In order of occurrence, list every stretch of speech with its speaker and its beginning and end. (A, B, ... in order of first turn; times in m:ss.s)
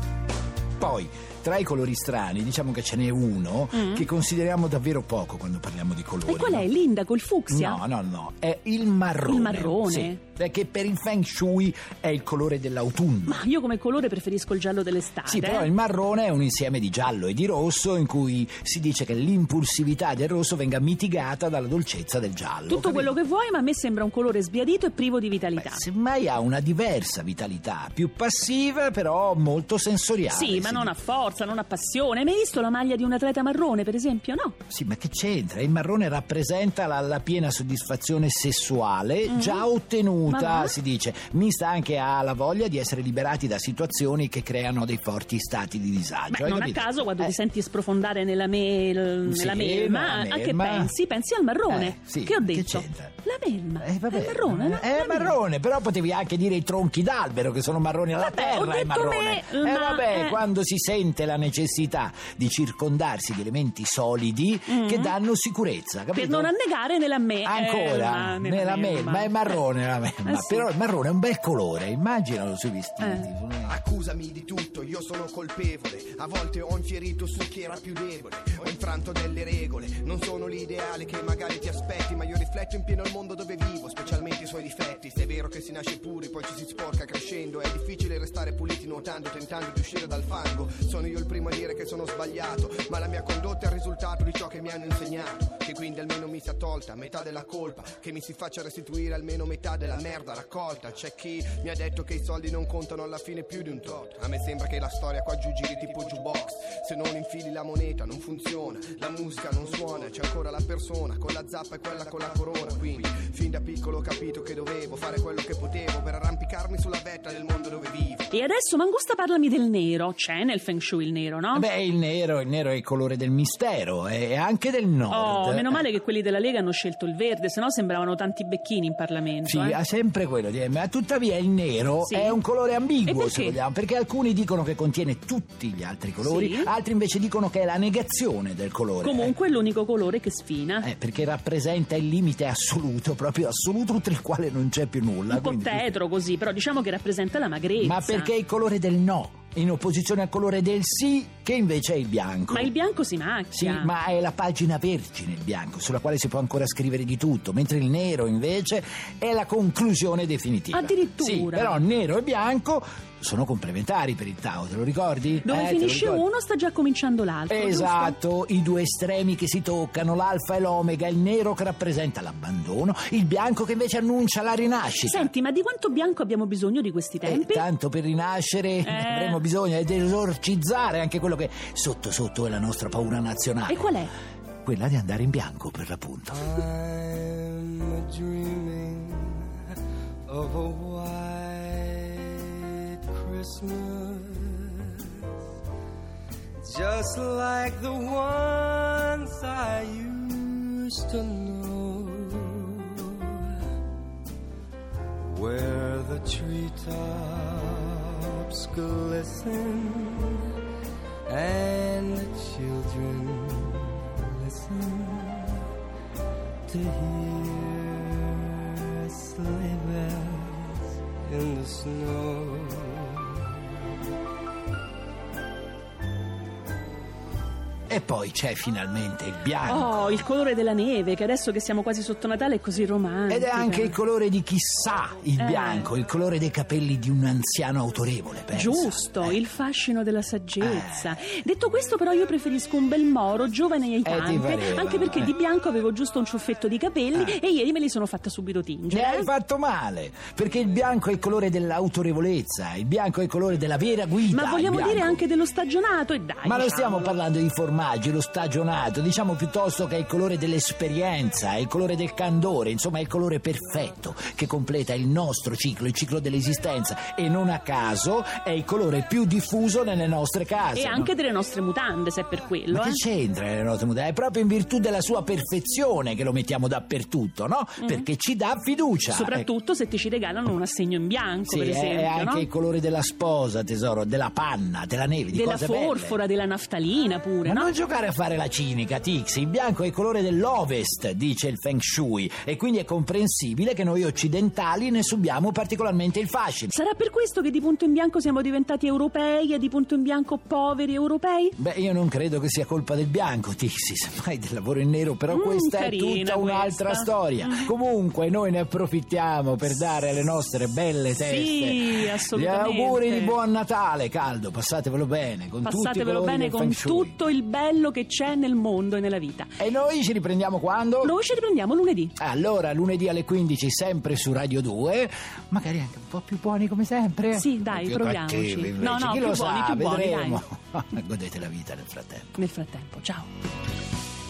0:00.8-0:06.7 A
0:03.7-0:04.1 B
0:06.3-0:07.8 B
0:07.5-0:13.4 A
0:09.2-0:10.2 B
0:13.3-0:15.7 B
0:15.3-0:23.2 A
0:22.7-0:25.8 B
0:25.6-0:30.9 A
0:30.3-0:34.6 B
0:34.7-0:47.4 A
0:39.3-0:39.7 B
0:40.3-0:40.8 B
0:46.3-0:55.4 B
0:49.2-0:50.9 A
0:51.7-0:53.2 A
0:53.8-1:06.5 A
0:58.2-1:00.4 B
1:04.7-1:05.2 B
1:06.1-1:09.6 B
1:07.4-1:13.8 A
1:10.2-1:10.7 B
1:13.0-1:13.3 B
1:13.7-1:58.3 C
1:58.3-2:01.7 B
2:01.5-2:05.9 A
2:05.1-2:09.8 B
2:09.4-2:19.4 A
2:12.0-2:12.4 B
2:13.1-2:13.6 B
2:16.2-2:16.7 B
2:19.0-2:20.9 B
2:20.8-2:25.9 A
2:25.3-2:28.3 B
2:27.8-2:32.7 A
2:32.5-2:33.9 B
2:33.5-2:46.3 A
2:40.7-2:41.8 B
2:45.4-2:48.2 B
2:47.5-2:55.3 A
2:55.1-2:57.6 B
2:57.2-3:04.0 A
2:58.8-2:59.4 B
3:03.7-3:04.1 B
3:04.6-3:06.4 A
3:06.3-3:09.5 D
3:10.3-3:15.3 D
3:16.6-3:23.4 D
3:25.2-3:30.5 D
3:31.3-3:35.6 D
3:36.7-3:43.5 D
3:47.9-3:50.2 A
3:49.7-3:54.0 B
3:53.3-3:59.4 A
3:55.4-3:55.9 B
3:58.5-4:09.3 B
4:00.6-4:01.2 A
4:04.0-4:05.3 A
4:07.1-4:07.4 A
4:08.9-4:15.2 A
4:14.3-4:17.2 B
4:16.4-4:31.1 A
4:30.8-4:33.0 B
4:32.7-4:39.5 A
4:37.8-4:38.1 B
4:39.1-4:42.5 B
4:41.5-4:46.2 A
4:45.3-4:47.7 B
4:47.4-4:56.7 A
4:56.7-5:01.6 B
5:01.6-5:17.2 A
5:05.3-5:07.7 B
5:11.1-5:13.4 B
5:15.6-5:19.5 B
5:19.6-5:21.2 A
5:21.0-5:22.2 B
5:22.2-5:32.4 A
5:27.3-5:30.4 B
5:32.4-5:33.3 B